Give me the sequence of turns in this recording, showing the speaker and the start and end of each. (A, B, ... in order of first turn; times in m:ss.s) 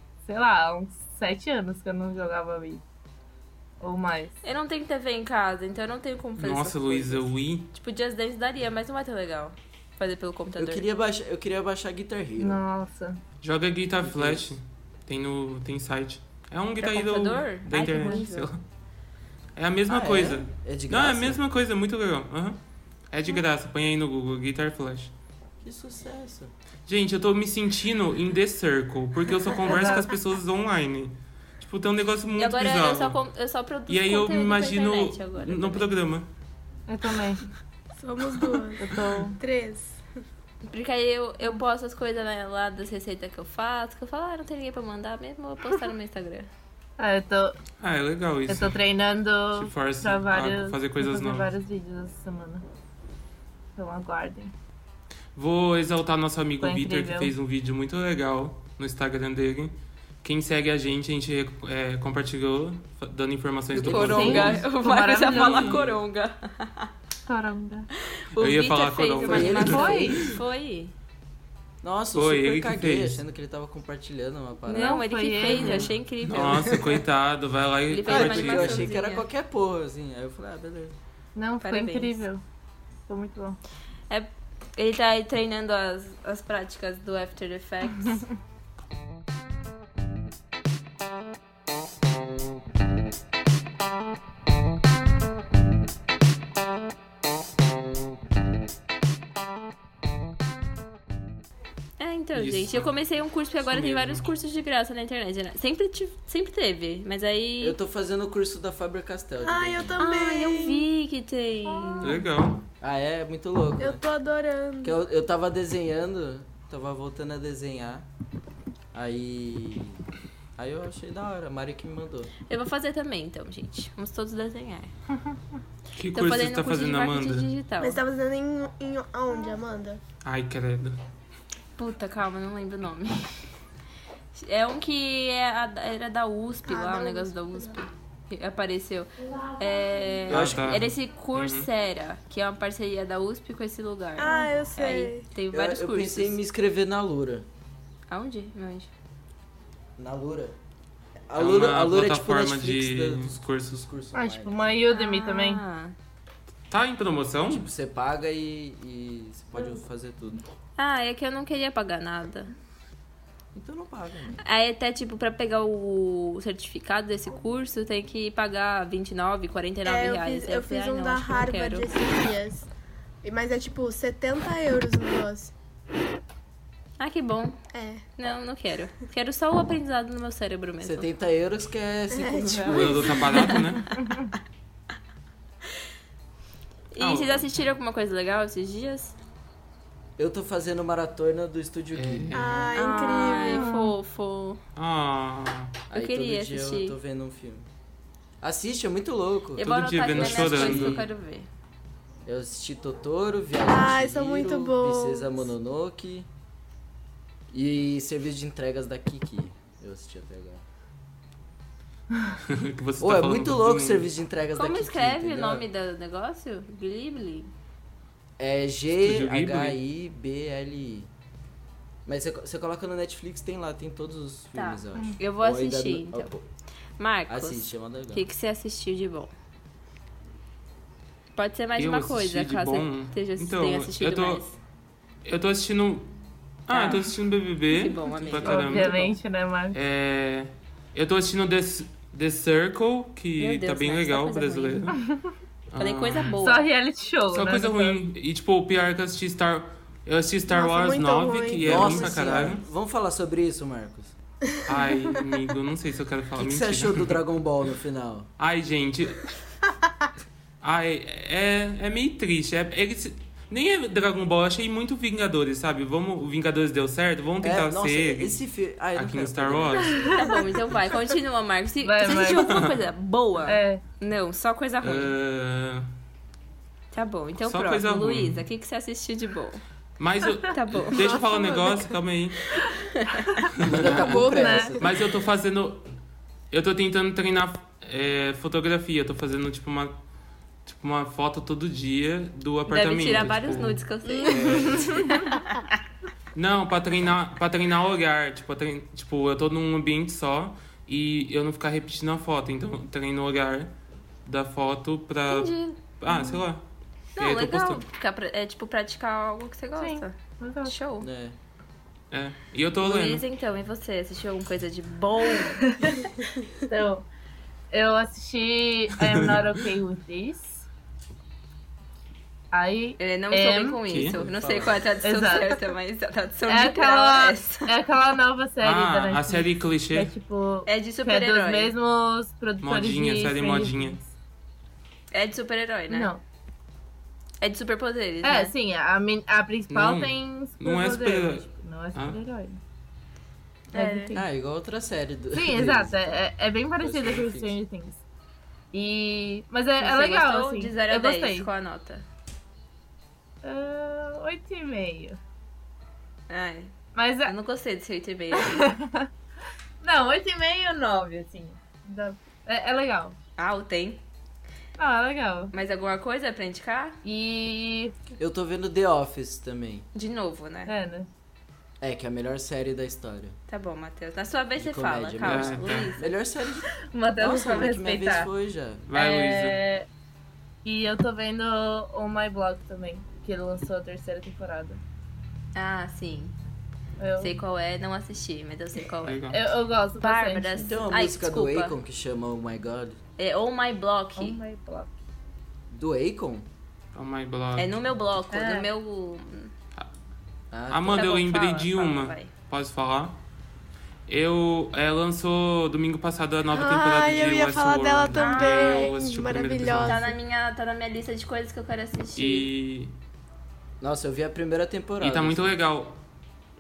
0:00.2-0:02.8 A
0:03.8-0:04.3 A
0:04.4-0:10.8 B
0:06.4-0:07.7 C
0:10.6-0:12.6 D
0:12.4-0:13.2 A
0:13.4-0:18.6 C
0:14.0-0:14.5 D
0:16.8-0:18.5 B
0:17.8-0:18.2 A
0:19.6-0:22.6 C
0:19.9-0:21.4 D
0:23.1-0:25.1 C
0:25.6-0:26.5 D
0:26.9-0:33.2 C
0:29.7-0:30.1 A
0:32.4-0:35.9 B
0:33.9-0:36.3 C
0:36.9-0:37.4 A
0:38.0-0:40.0 E
0:38.8-0:39.4 A
0:40.7-0:46.5 B
0:47.0-0:47.6 A
0:47.8-0:48.8 C
0:48.5-0:52.6 A
0:49.5-0:51.5 C
0:53.8-0:54.5 A
0:55.4-1:04.6 C
0:56.6-0:57.3 A
1:03.8-1:04.5 D
1:03.8-1:06.9 B
1:03.9-1:05.8 A
1:05.2-1:06.0 C
1:07.3-1:07.9 A
1:08.2-1:10.9 B
1:08.4-1:10.3 C
1:09.2-1:10.4 D
1:09.4-1:10.3 A
1:11.8-1:15.0 D
1:12.1-1:13.2 C
1:14.7-1:16.8 B
1:14.8-1:15.9 A
1:15.5-1:18.9 C
1:16.4-1:17.0 D
1:17.9-1:19.3 B
1:18.0-1:21.0 D
1:21.4-1:22.4 A
1:21.6-1:22.3 B
1:23.1-1:23.6 A
1:24.1-1:28.2 B
1:42.0-1:47.8 B
1:42.3-1:44.2 C
1:47.6-1:50.1 D
1:49.4-1:50.9 E
1:50.0-1:52.2 B
1:51.8-1:52.2 A
1:52.0-1:52.6 C
1:52.8-1:54.0 D
1:53.8-1:55.0 E
1:54.8-1:58.1 D
1:58.9-2:00.0 D
2:00.6-2:02.3 D
2:02.5-2:04.9 B
2:06.0-2:07.5 C
2:06.1-2:08.0 B
2:07.8-2:10.0 E
2:10.2-2:11.0 C
2:11.8-2:13.4 B
2:14.3-2:26.3 B
2:16.7-2:17.8 E
2:20.3-2:20.9 D
2:20.3-2:21.7 C
2:24.2-2:25.2 E
2:25.5-2:27.5 D
2:28.1-2:28.9 B
2:30.0-2:30.6 D
2:31.3-2:34.8 D
2:31.4-2:33.8 C
2:34.2-2:35.6 A
2:34.9-2:35.9 B
2:36.7-2:37.6 C
2:37.4-2:40.4 D
2:40.8-2:42.5 B
2:43.6-2:44.4 D
2:44.4-2:51.9 B
2:49.8-2:52.7 E
2:53.2-2:55.5 E
2:57.0-2:57.6 B
2:57.7-2:58.1 E
2:58.2-3:01.1 B
3:00.8-3:03.2 D
3:02.1-3:03.5 E
3:02.7-3:03.9 C
3:03.4-3:03.8 B
3:03.9-3:04.3 A
3:06.9-3:09.2 B
3:07.0-3:07.6 C
3:10.2-3:12.6 D
3:11.9-3:12.7 C
3:12.3-3:13.7 E
3:12.7-3:14.6 B
3:13.4-3:13.9 A
3:14.8-3:15.8 C
3:15.9-3:17.0 B
3:15.9-3:17.7 D
3:18.4-3:21.1 D
3:19.6-3:21.5 B
3:19.6-3:21.0 C
3:22.3-3:26.3 D
3:23.7-3:25.5 E
3:27.5-3:30.6 D
3:32.4-3:34.1 C
3:33.0-3:35.6 D
3:34.6-3:37.5 B
3:38.4-3:41.1 D
3:39.0-3:39.8 C
3:42.1-3:46.4 D
3:44.6-3:46.3 B
3:47.0-3:49.3 B
3:47.3-3:48.3 D
3:51.4-3:54.6 B
3:51.8-3:54.4 C
3:55.2-3:56.1 C
3:56.7-3:59.0 C
3:56.7-3:57.1 B
3:57.7-3:59.1 B
3:58.4-3:59.8 A
3:59.7-4:05.0 C
4:03.4-4:05.0 B
4:05.0-4:05.2 A
4:05.7-4:06.4 C
4:05.8-4:06.7 B
4:06.4-4:08.0 A
4:07.3-4:12.6 C
4:10.5-4:12.6 E
4:11.6-4:14.2 D
4:14.7-4:17.2 C
4:14.7-4:15.2 E
4:16.4-4:18.3 D
4:18.4-4:19.4 C
4:20.6-4:28.4 C
4:27.4-4:30.4 D
4:29.0-4:30.1 C
4:29.8-4:30.4 A
4:30.1-4:35.1 B
4:31.8-4:32.7 A
4:32.3-4:32.7 C
4:33.5-4:33.8 A
4:34.8-4:35.9 C
4:36.9-4:39.6 B
4:37.4-4:38.4 C
4:40.0-4:42.5 C
4:40.5-4:41.1 B
4:40.9-4:42.0 E
4:42.9-4:43.3 B
4:43.6-4:44.3 C
4:43.7-4:44.9 D
4:43.7-4:44.9 E
4:44.2-4:44.8 A
4:44.8-4:45.9 C
4:46.5-4:49.9 C
4:50.6-4:55.2 C
4:52.7-4:55.6 B
4:54.1-4:55.1 E
4:56.3-5:03.7 C
5:04.3-5:06.6 C
5:05.3-5:05.8 B
5:06.1-5:06.4 A
5:07.2-5:11.1 B
5:07.2-5:07.8 C
5:09.8-5:10.8 A
5:11.0-5:11.4 D
5:12.1-5:13.2 C
5:12.8-5:16.0 B
5:15.6-5:16.1 A
5:16.7-5:17.0 A
5:17.7-5:20.7 A
5:19.0-5:19.4 C
5:22.5-5:23.8 A
5:23.0-5:27.7 B
5:23.9-5:24.2 C
5:23.9-5:24.8 D
5:25.0-5:25.6 A
5:26.5-5:34.1 A
5:28.6-5:30.1 C
5:30.7-5:31.8 B
5:32.6-5:34.0 C
5:35.1-5:36.1 B
5:35.9-5:36.2 A
5:37.4-5:38.5 B
5:38.2-5:42.6 A
5:39.7-5:42.2 C
5:43.7-5:44.2 B
5:43.7-5:44.2 A
5:44.1-5:46.3 D
5:45.4-5:48.0 A
5:46.8-5:47.6 D
5:48.7-5:51.5 A
5:49.8-5:52.0 B
5:53.4-5:55.2 A
5:56.3-5:56.7 B
5:57.0-5:57.3 A
5:57.2-5:58.7 B
5:58.3-5:59.1 A
5:59.8-6:03.2 A
6:03.4-6:04.0 B
6:04.8-6:05.5 A
6:05.5-6:07.0 B
6:07.0-6:07.9 A
6:08.2-6:09.9 D
6:10.0-6:10.8 B
6:10.7-6:11.1 A
6:11.8-6:13.4 D
6:13.5-6:16.1 B
6:14.6-6:18.9 D
6:15.2-6:15.9 C
6:16.7-6:18.3 A
6:18.9-6:19.6 C
6:18.9-6:19.9 A
6:20.6-6:24.8 A
6:25.6-6:26.3 B
6:27.0-6:27.4 A
6:27.2-6:29.2 B
6:29.0-6:29.4 C
6:29.3-6:30.8 A
6:30.0-6:31.8 B
6:30.6-6:33.0 D
6:33.2-6:34.4 B
6:34.2-6:34.9 A
6:35.7-6:36.5 D
6:36.9-6:37.7 C
6:37.6-6:39.5 B
6:38.3-6:38.7 A
6:40.5-6:41.0 D
6:40.7-6:43.2 C
6:40.9-6:42.3 B
6:44.1-6:50.0 C
6:46.5-6:50.1 E
6:48.1-6:49.0 B
6:49.8-6:52.5 B
6:52.2-6:52.9 C
6:53.8-6:55.6 D
6:55.0-6:56.0 C